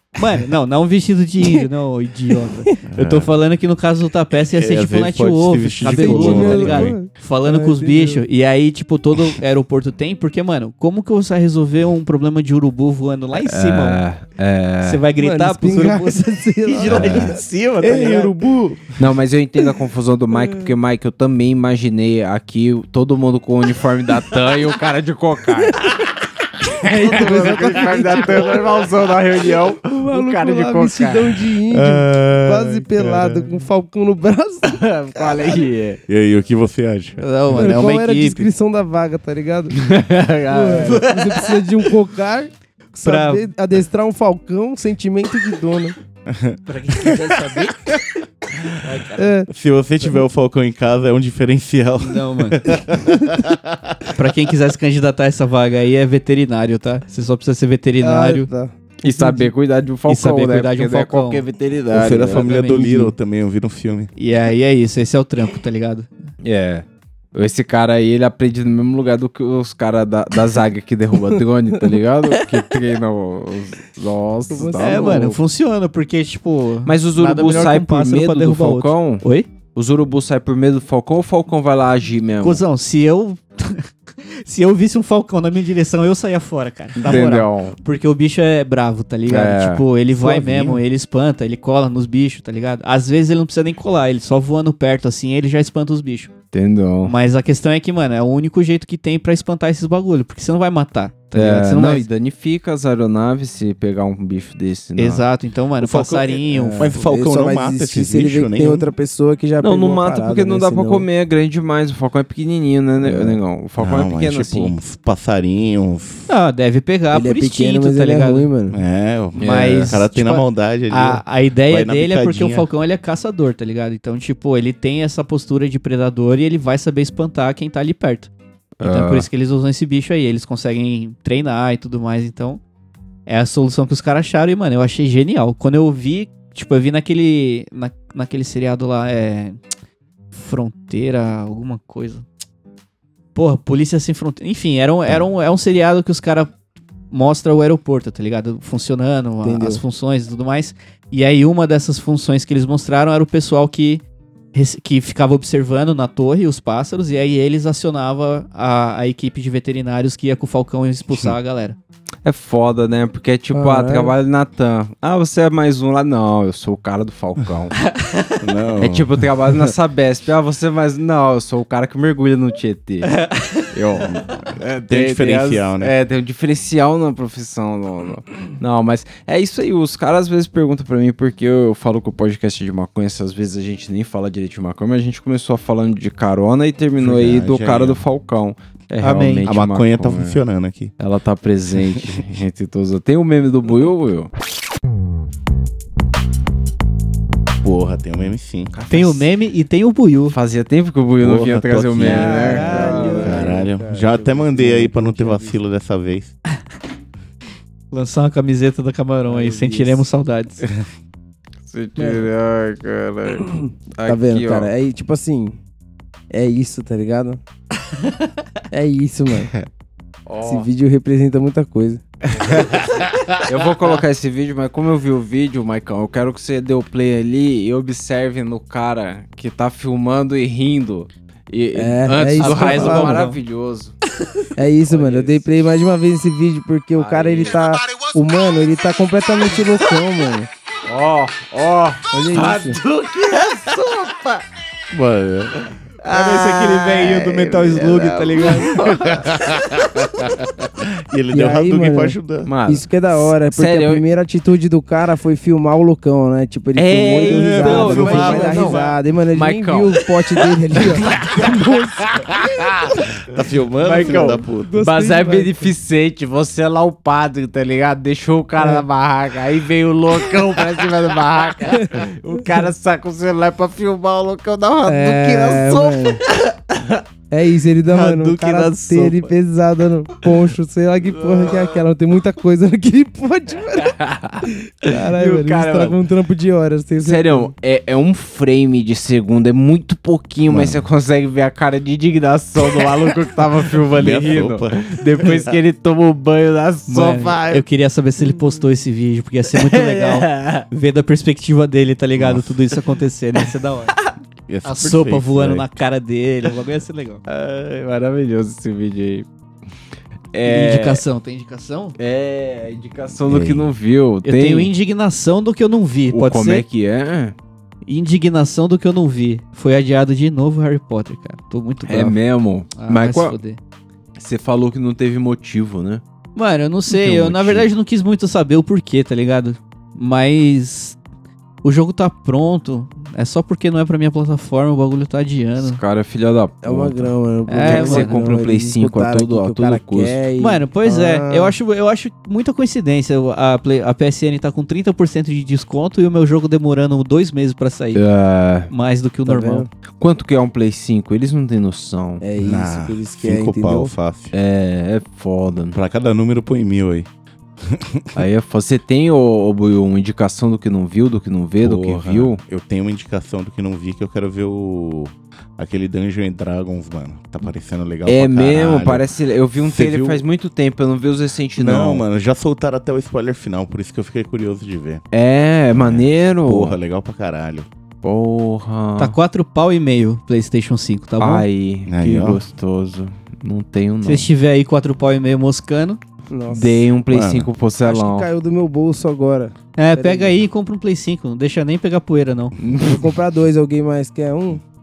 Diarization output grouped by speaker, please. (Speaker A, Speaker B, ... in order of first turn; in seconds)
Speaker A: 0.1-14.0, 14.8-18.3, 37.2-38.5, 40.8-41.7, 43.0-43.5, 46.7-47.9, 48.8-49.3, 52.0-52.6, 54.1-58.5, 60.1-61.4, 62.1-63.1, 64.2-66.1, 74.8-79.5, 82.4-96.3, 97.0-102.1, 105.0-107.0, 116.3-118.5, 119.4-128.3, 128.8-132.6, 133.3-139.6, 140.3-142.2, 143.3-146.5, 147.1-161.8, 167.9-168.4, 173.2-173.7, 189.0-189.5, 198.9-200.4, 202.0-203.5, 207.9-210.6, 232.4-233.4, 246.0-248.8, 257.2-258.8, 277.9-279.3, 296.9-303.9, 304.6-307.2, 310.5-312.0, 314.2-316.6, 317.9-322.2, 322.8-323.6, 326.4-331.0, 331.6-335.8, 337.5-338.3, 340.4-348.0, 348.7-349.6, 379.0-381.5, 384.0-386.0, 389.8-392.5
Speaker B: 2.5-2.8, 5.8-8.2, 15.2-17.4, 26.8-28.9, 29.4-35.5, 37.5-39.8, 40.5-46.0, 49.2-49.5, 58.0-59.5, 74.5-75.4, 90.1-90.8, 106.5-111.1, 113.0-113.4, 117.1-118.8, 149.4-149.8, 163.5-164.1, 202.0-205.6, 209.3-210.1, 212.0-212.3, 214.0-215.6, 216.3-217.4, 218.7-219.5, 220.4-222.0, 231.8-233.2, 234.6-240.5, 242.1-242.8, 251.3-262.1, 263.9-265.7, 268.6-268.9, 271.8-272.0, 274.9-276.2, 277.3-287.5, 336.6-341.6, 349.3-349.7, 352.2-353.9, 386.3-386.9, 387.8-390.4, 392.8-394.6
Speaker C: 2.9-3.3, 4.5-7.0, 16.9-18.9, 31.7-33.6, 36.1-38.2, 46.3-47.2, 49.5-54.1, 61.9-64.1, 105.8-108.9, 113.8-116.3, 118.7-122.7, 168.4-169.2, 174.1-175.9, 187.0-188.0, 189.5-190.9, 197.6-198.7, 201.2-202.7, 203.2-206.3, 222.5-223.4, 244.9-245.5, 249.1-250.3, 251.0-252.5, 257.7-258.8, 263.3-264.8, 290.5-290.9, 293.9-295.6, 302.2-302.6, 304.5-305.7, 313.3-313.7, 352.4-354.3, 355.7-357.1, 357.6-358.2, 361.6-369.1, 369.6-370.2, 371.6-375.0, 375.8-377.7, 381.9-382.4, 387.1-387.5
Speaker D: 13.5-15.0, 19.0-25.9, 26.8-31.4, 34.6-36.0, 39.8-41.0, 59.0-62.5, 66.4-75.4, 76.9-82.6, 87.0-87.8, 89.3-89.8, 96.5-97.1, 101.3-105.2, 109.6-114.7, 119.4-120.0, 128.8-129.3, 162.2-167.8, 168.8-173.2, 173.7-190.4, 191.0-194.3, 198.7-199.3, 200.3-203.5, 211.7-214.7, 220.3-220.7, 223.4-233.9, 234.9-235.5, 236.9-237.6, 240.9-244.4, 246.1-249.3, 252.5-254.0, 256.8-263.0, 263.8-277.0, 281.0-281.8, 283.8-286.0, 287.0-297.6, 299.5-300.7, 307.3-309.3, 310.3-311.0, 312.0-314.7, 316.1-317.4, 321.9-323.4, 324.2-326.0, 326.9-327.7, 335.6-340.2, 347.9-348.7, 350.0-352.2, 354.3-355.8, 358.1-362.4, 368.1-372.1, 375.1-376.8, 378.0-379.2, 381.2-384.3, 386.5-388.3, 392.6-393.1